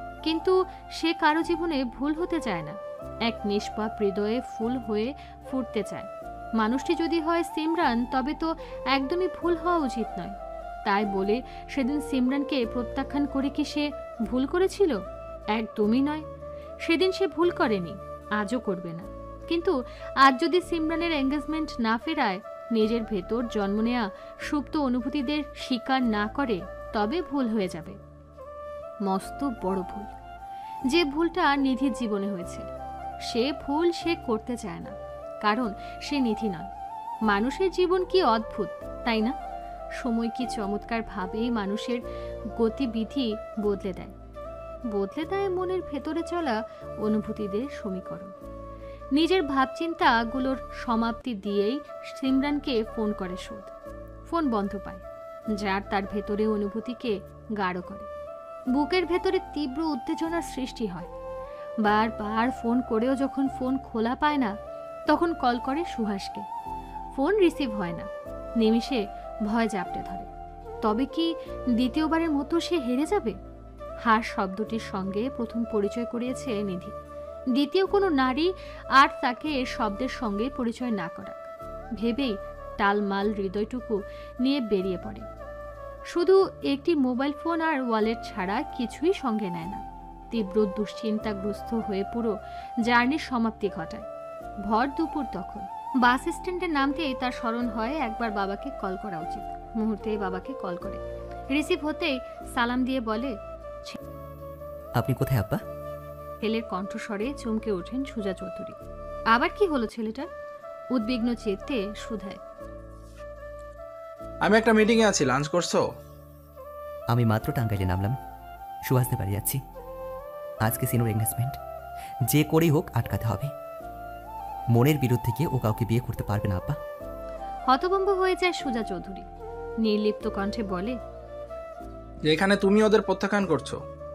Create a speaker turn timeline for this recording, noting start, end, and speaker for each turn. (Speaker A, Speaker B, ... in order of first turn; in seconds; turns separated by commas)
Speaker A: 0.2-15.0, Speaker A: 15.5-16.2, Speaker A: 16.8-28.0, Speaker A: 29.1-30.1, Speaker A: 30.9-32.6, Speaker A: 33.3-36.7, Speaker A: 37.3-39.3, Speaker A: 40.0-42.0, Speaker A: 42.5-44.1, Speaker A: 44.9-48.3, Speaker A: 49.1-53.7, Speaker A: 54.3-55.0, Speaker A: 55.6-58.1, Speaker A: 58.7-61.1, Speaker A: 61.8-64.5, Speaker A: 65.1-66.5, Speaker A: 67.1-68.1, Speaker A: 68.6-70.3, Speaker A: 70.8-73.3, Speaker A: 74.0-76.9, Speaker A: 77.5-81.5, Speaker A: 82.0-85.2, Speaker A: 86.1-92.3, Speaker A: 92.8-94.0, Speaker A: 94.7-104.0, Speaker B: 105.0-105.6, Speaker A: 106.4-108.8, Speaker A: 109.3-110.3, Speaker A: 110.9-112.4, Speaker C: 114.5-115.8, Speaker B: 117.1-118.2, Speaker B: 118.9-119.6, Speaker B: 120.6-121.6, Speaker B: 122.3-123.5, Speaker B: 124.7-126.8, Speaker A: 127.7-129.3, Speaker A: 129.8-131.0, Speaker C: 132.3-133.8